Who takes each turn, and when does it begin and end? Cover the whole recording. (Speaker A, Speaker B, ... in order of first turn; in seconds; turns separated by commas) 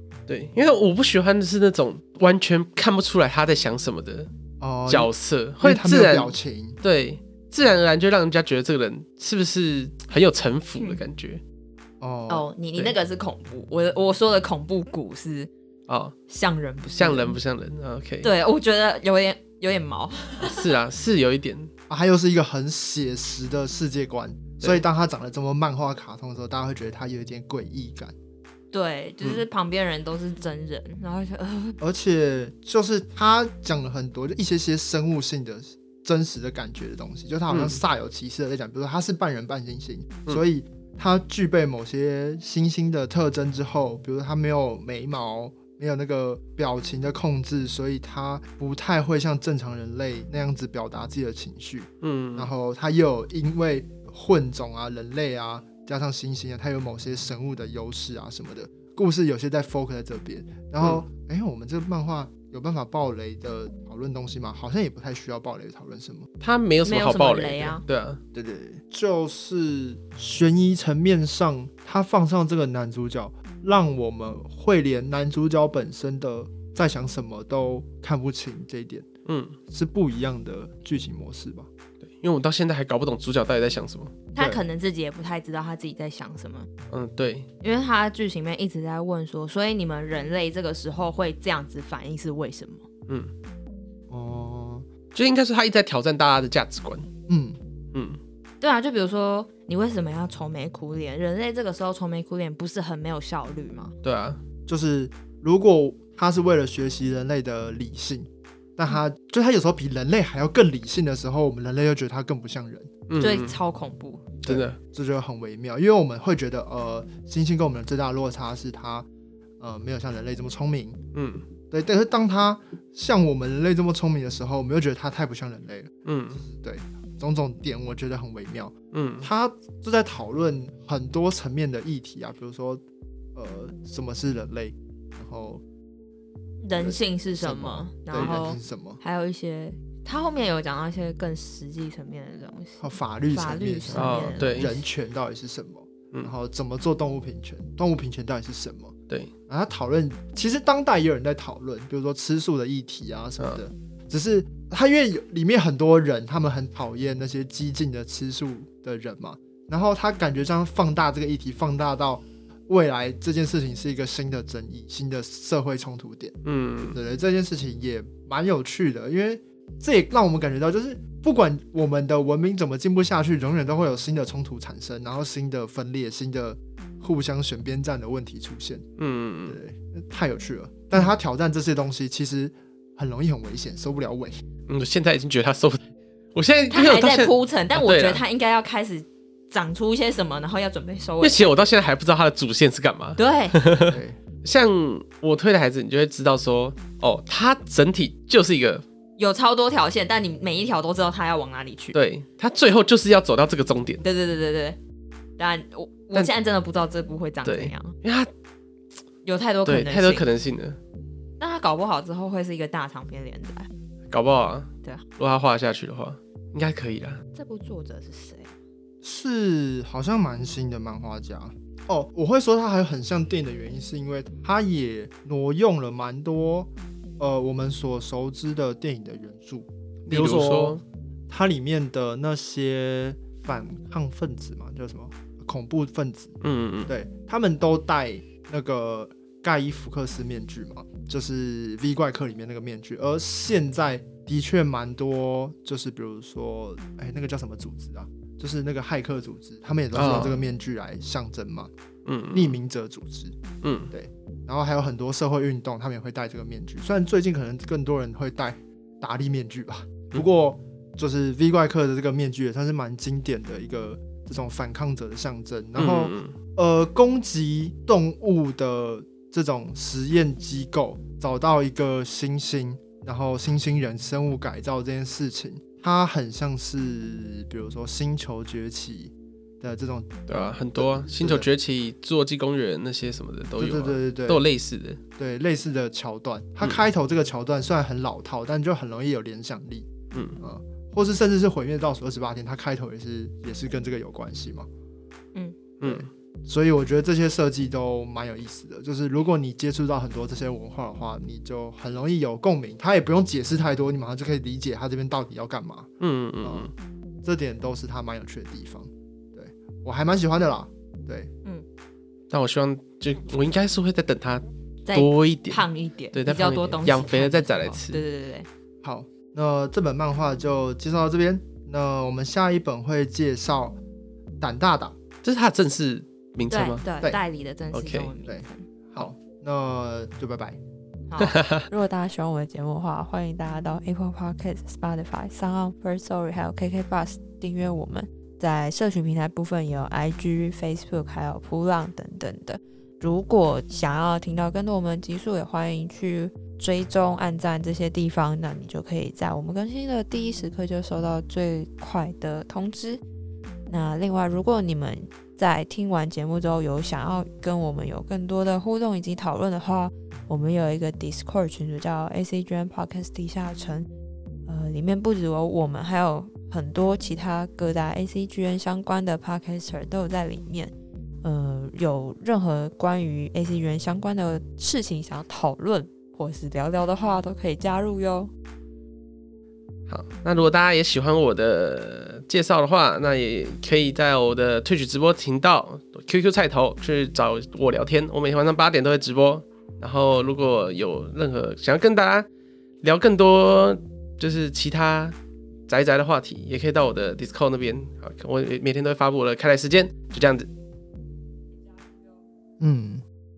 Speaker A: 0.3-4.3, Speaker B: 4.6-6.8, Speaker A: 4.9-11.4, Speaker B: 12.0-12.5, Speaker C: 12.3-15.5, Speaker A: 15.9-16.1, Speaker C: 16.3-17.3, Speaker A: 17.0-18.3, Speaker C: 18.2-20.7, Speaker A: 20.4-21.7, Speaker B: 21.9-28.1, Speaker A: 24.6-24.8, Speaker C: 28.7-31.8, Speaker B: 31.8-66.3, Speaker A: 37.5-37.8, Speaker A: 52.0-52.5, Speaker A: 66.4-68.2, Speaker C: 66.8-67.8, Speaker B: 68.3-79.0, Speaker A: 79.2-79.5, Speaker B: 79.7-81.7, Speaker A: 82.0-84.1, Speaker C: 84.3-86.7, Speaker B: 84.4-84.6, Speaker A: 86.9-87.5, Speaker C: 87.6-92.8, Speaker B: 94.1-94.8, Speaker A: 95.1-97.1, Speaker B: 97.3-97.6, Speaker A: 97.9-98.2, Speaker C: 98.6-103.9, Speaker A: 104.0-104.4, Speaker B: 104.7-112.9, Speaker A: 113.1-113.6, Speaker C: 113.2-114.3, Speaker B: 114.4-119.1, Speaker A: 114.5-114.8, Speaker B: 119.6-121.0, Speaker A: 121.1-121.4, Speaker B: 121.7-132.8, Speaker A: 126.0-126.4, Speaker A: 128.9-129.3, Speaker B: 133.3-135.6, Speaker C: 136.6-144.8, Speaker B: 136.7-139.0, Speaker A: 138.1-138.4, Speaker B: 142.8-148.9, Speaker A: 143.9-144.7, Speaker B: 149.5-166.3, Speaker A: 166.4-167.0, Speaker B: 166.9-178.8, Speaker A: 179.0-179.6, Speaker B: 179.5-184.4, Speaker A: 184.7-185.8, Speaker A: 186.3-188.2, Speaker C: 186.7-191.7, Speaker A: 191.2-198.8, Speaker C: 193.2-193.6, Speaker B: 193.9-194.2, Speaker C: 199.2-201.9, Speaker A: 201.9-204.0, Speaker C: 204.0-204.8, Speaker C: 205.4-207.9, Speaker A: 207.4-208.3, Speaker C: 209.2-210.2, Speaker A: 209.6-210.8, Speaker C: 211.4-213.7, Speaker A: 214.1-217.2, Speaker C: 217.3-218.5, Speaker B: 219.0-236.3, Speaker A: 230.1-230.8, Speaker A: 236.4-236.9, Speaker B: 236.9-251.7, Speaker A: 249.9-250.4, Speaker A: 252.1-252.6, Speaker B: 252.3-253.3, Speaker A: 253.6-253.9, Speaker B: 253.9-281.5, Speaker A: 265.8-266.4, Speaker A: 280.3-285.0, Speaker B: 283.6-284.4, Speaker B: 285.2-289.9, Speaker A: 290.1-290.4, Speaker B: 290.4-294.7, Speaker A: 295.8-296.1, Speaker B: 295.8-305.9, Speaker A: 306.0-306.7, Speaker B: 306.4-306.7, Speaker B: 307.2-311.3, Speaker A: 312.3-318.0, Speaker C: 314.9-318.5, Speaker B: 318.8-323.8, Speaker B: 324.4-324.9, Speaker A: 325.2-326.8, Speaker C: 326.5-328.7, Speaker A: 327.7-328.1, Speaker B: 328.3-330.6, Speaker C: 331.1-331.4, Speaker A: 331.2-331.6, Speaker D: 331.7-353.0, Speaker D: 353.7-363.9, Speaker D: 364.4-378.3, Speaker A: 379.9-392.3, Speaker A: 392.8-395.1, Speaker A: 395.7-400.5, Speaker B: 402.6-403.0